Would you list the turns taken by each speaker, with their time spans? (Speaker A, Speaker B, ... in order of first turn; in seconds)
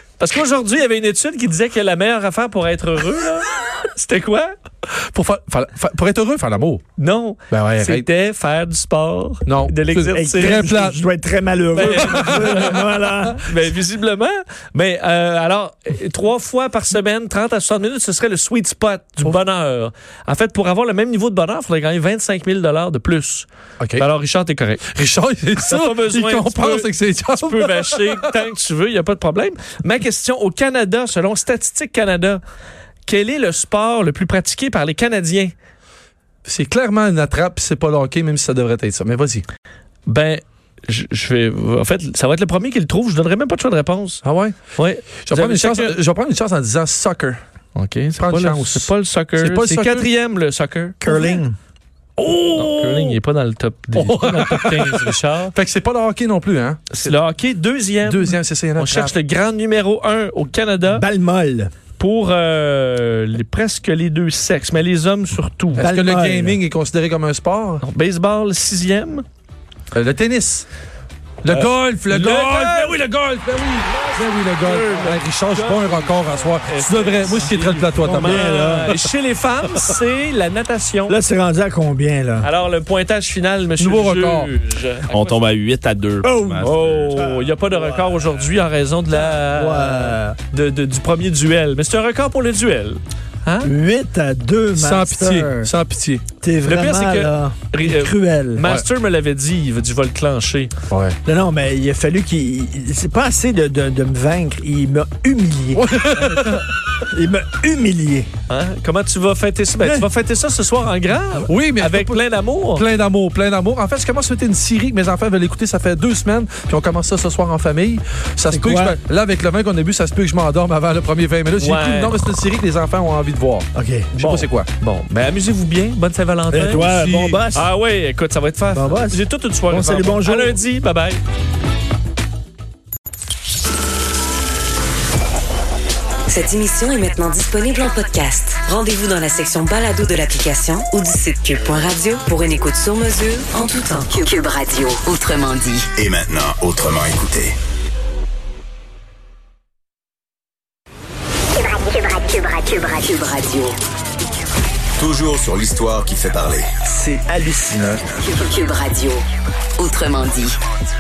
Speaker A: 0.2-4.5, 7.0-10.7, 11.7-24.9, 25.6-32.4, 33.1-35.5, 40.1-46.0, 47.8-51.4, 52.5-55.5, 56.9-61.0, 62.0-65.9, 67.8-69.2, 71.5-81.2, 82.4-85.5, 86.6-93.7, 96.7-100.7, 106.2-106.7, 108.5-112.9, 121.6-122.2, 124.2-131.2
Speaker B: 5.0-6.8, 7.5-8.1, 9.5-11.0, 11.8-12.8, 23.8-24.1, 24.9-28.4, 36.5-39.5, 44.2-44.6, 45.2-47.4, 48.2-50.1, 52.2-53.2, 54.0-57.1, 58.0-59.1, 65.8-67.8, 69.9-70.7, 71.4-79.0, 83.8-84.5, 94.7-96.2, 100.9-101.2, 105.7-106.6, 111.5-124.7, 126.9-127.4
Speaker C: 10.1-13.5, 51.0-51.6, 60.9-61.7, 65.8-66.6, 78.0-78.9, 81.1-82.5, 86.2-88.2, 89.2-90.4, 93.6-95.7, 96.4-98.7, 101.2-105.8, 107.1-108.3, 118.5-119.0, 123.8-124.1, 126.5-127.7, 128.7-130.6, 156.9-158.0
Speaker D: 85.1-87.2
Speaker E: 136.3-145.9, 151.6-153.8, 158.2-159.2, 159.8-160.6
Speaker F: 145.9-147.6, 155.0-156.7